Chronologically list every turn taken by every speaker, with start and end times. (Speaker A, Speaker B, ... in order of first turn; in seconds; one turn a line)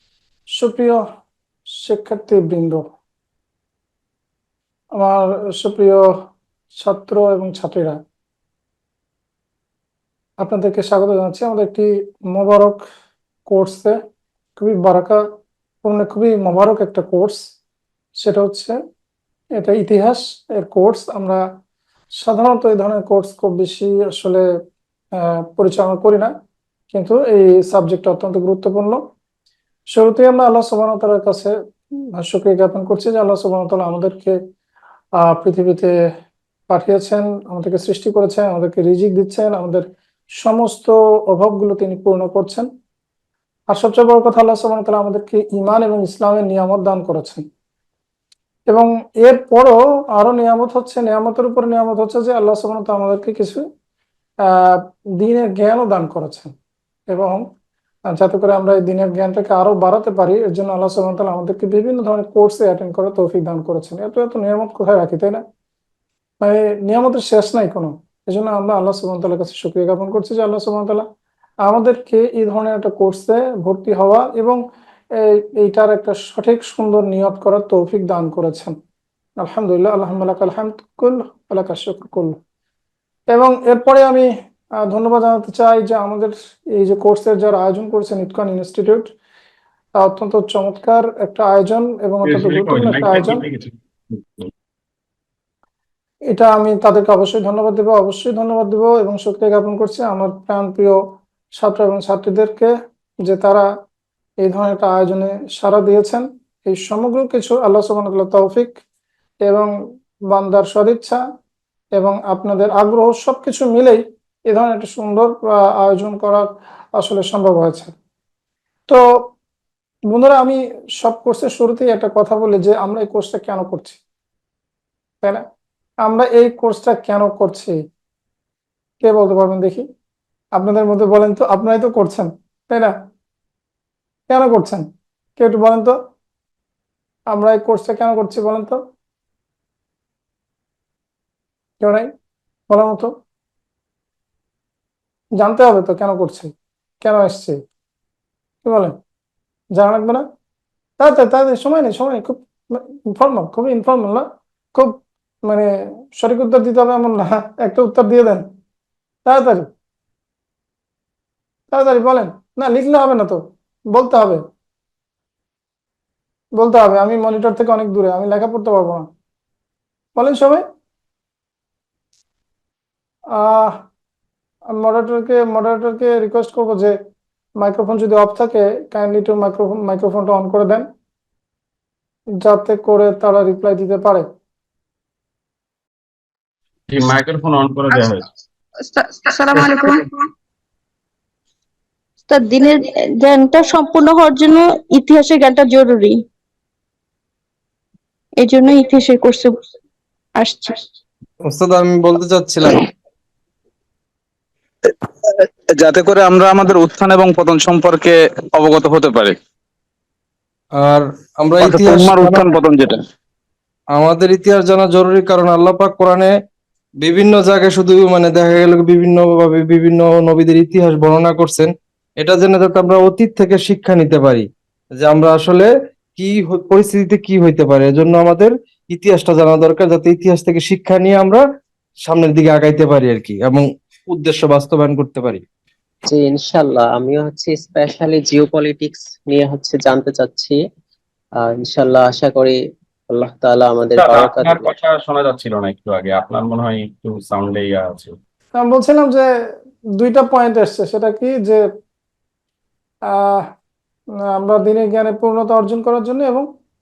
Speaker A: 0.6-1.0
Speaker A: 1.8-2.9
Speaker A: 5.0-6.0
Speaker A: 6.8-8.0
Speaker A: 10.4-12.8
Speaker A: 13.5-14.0
Speaker A: 14.6-15.2
Speaker A: 15.8-17.4
Speaker A: 18.2-18.8
Speaker A: 19.6-21.4
Speaker A: 22.2-24.4
Speaker A: 25.2-26.3
Speaker A: 26.9-29.0
Speaker A: 29.9-31.5
Speaker A: 32.1-34.4
Speaker A: 35.2-35.9
Speaker A: 36.7-39.9
Speaker A: 40.4-42.7
Speaker A: 43.7-47.5
Speaker A: 48.7-53.6
Speaker A: 54.5-56.5
Speaker A: 57.1-57.4
Speaker A: 58.1-65.4
Speaker A: 66.4-71.0
Speaker A: 71.6-74.6
Speaker A: 75.2-78.8
Speaker A: 79.4-82.4
Speaker A: 83.3-84.3
Speaker A: 84.8-89.1
Speaker A: 90.0-93.4
Speaker B: 92.2-94.5
Speaker A: 96.3-101.0
Speaker A: 101.6-102.7
Speaker A: 103.2-103.7
Speaker A: 104.4-108.8
Speaker A: 109.4-109.7
Speaker A: 110.3-111.2
Speaker A: 112.0-116.5
Speaker A: 117.0-117.9
Speaker A: 120.1-124.0
Speaker A: 126.0-127.8
Speaker A: 129.0-129.8
Speaker A: 130.5-132.9
Speaker A: 134.3-135.9
Speaker A: 137.3-138.8
Speaker A: 141.8-142.1
Speaker A: 142.7-143.1
Speaker A: 145.4-147.6
Speaker A: 148.6-148.9
Speaker A: 149.8-150.2
Speaker A: 151.0-154.9
Speaker A: 155.4-158.4
Speaker A: 159.2-159.7
Speaker A: 161.7-164.4
Speaker A: 166.6-169.1
Speaker A: 170.2-170.6
Speaker A: 173.3-173.8
Speaker A: 174.8-177.0
Speaker A: 177.6-180.9
Speaker A: 182.4-184.3
Speaker B: 186.9-188.2
Speaker C: 188.8-190.2
Speaker C: 192.3-196.2
Speaker C: 198.4-199.6
Speaker C: 200.3-200.9
Speaker D: 201.5-202.8
Speaker E: 205.4-209.3
Speaker D: 210.8-212.5
Speaker E: 211.6-213.0
Speaker D: 213.9-216.3
Speaker D: 217.0-224.4
Speaker D: 225.0-231.4
Speaker D: 232.0-235.4
Speaker F: 236.1-240.6
Speaker F: 241.4-242.6
Speaker F: 243.1-244.8
Speaker B: 243.9-248.1
Speaker A: 248.6-249.3
Speaker A: 250.0-251.6
Speaker A: 253.1-253.5
Speaker A: 254.3-256.5